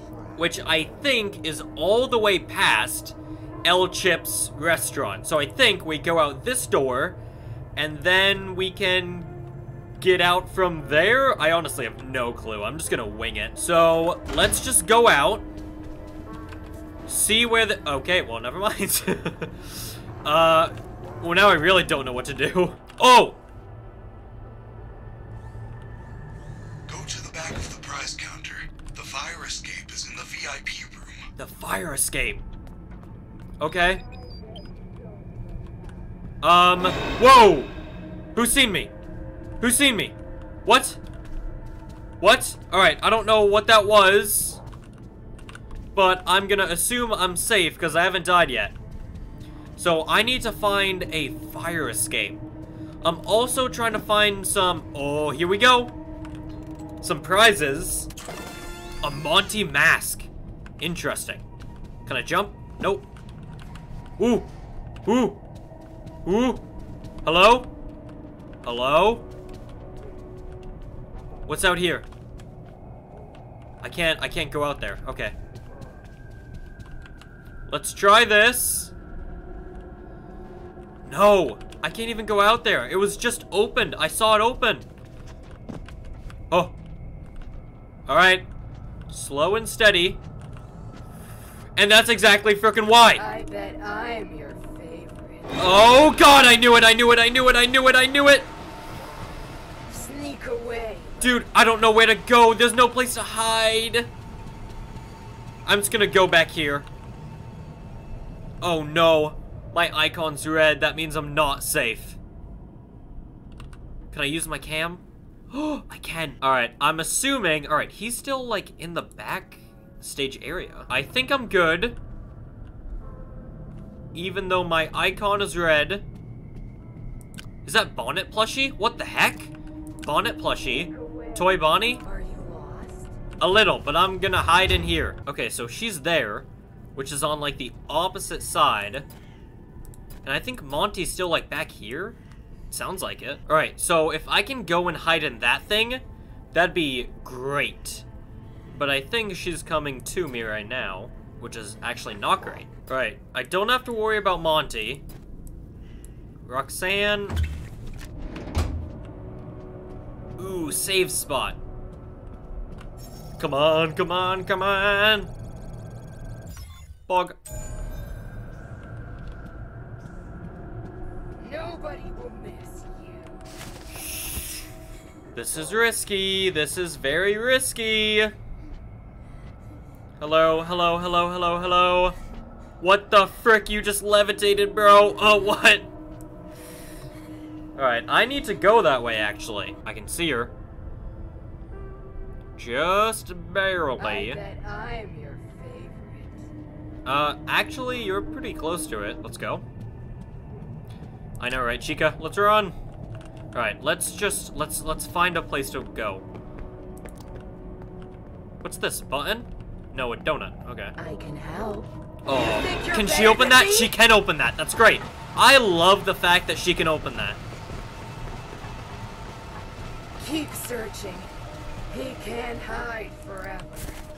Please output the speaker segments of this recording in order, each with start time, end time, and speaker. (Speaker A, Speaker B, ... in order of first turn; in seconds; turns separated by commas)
Speaker A: 0.3-7.2, Speaker A: 7.8-9.4, Speaker A: 10.0-15.4, Speaker A: 17.1-23.4, Speaker B: 26.9-31.3, Speaker A: 31.4-32.4, Speaker A: 33.6-34.0, Speaker C: 34.6-35.5, Speaker A: 36.4-37.7, Speaker A: 38.3-38.9, Speaker A: 39.6-41.0, Speaker A: 42.2-44.6, Speaker A: 45.9-48.8, Speaker A: 49.8-52.4, Speaker A: 53.0-55.9, Speaker A: 57.0-58.1, Speaker A: 59.0-61.4, Speaker A: 62.0-63.1, Speaker A: 64.2-64.5, Speaker A: 65.0-65.4, Speaker A: 66.2-66.6, Speaker A: 67.2-67.7, Speaker A: 68.6-69.2, Speaker A: 71.5-72.0, Speaker A: 73.8-75.3, Speaker A: 77.7-78.9, Speaker A: 81.0-84.8, Speaker A: 86.5-86.8, Speaker A: 88.1-88.5, Speaker A: 89.1-90.2, Speaker A: 91.8-93.2, Speaker C: 93.1-95.9, Speaker A: 95.6-98.5, Speaker C: 99.9-101.3, Speaker A: 101.2-104.1, Speaker A: 105.7-106.9, Speaker A: 108.6-112.2, Speaker A: 114.1-122.0, Speaker A: 124.1-126.0, Speaker A: 127.6-132.0, Speaker C: 130.9-133.2, Speaker A: 133.4-139.1, Speaker A: 140.2-142.2, Speaker A: 142.7-148.0, Speaker A: 148.7-155.0, Speaker A: 156.4-157.4, Speaker A: 160.4-161.6, Speaker A: 163.4-165.3, Speaker A: 167.1-167.4, Speaker C: 171.4-173.4, Speaker A: 173.9-174.7, Speaker A: 175.3-178.3, Speaker A: 180.2-182.2, Speaker A: 182.8-185.9, Speaker A: 187.8-190.5, Speaker A: 192.6-194.4, Speaker C: 194.0-196.5, Speaker A: 197.0-199.6, Speaker A: 201.4-202.8, Speaker A: 203.5-206.2, Speaker A: 208.6-210.9, Speaker C: 211.0-213.9, Speaker A: 212.2-217.4, Speaker C: 220.2-221.3, Speaker C: 221.9-224.0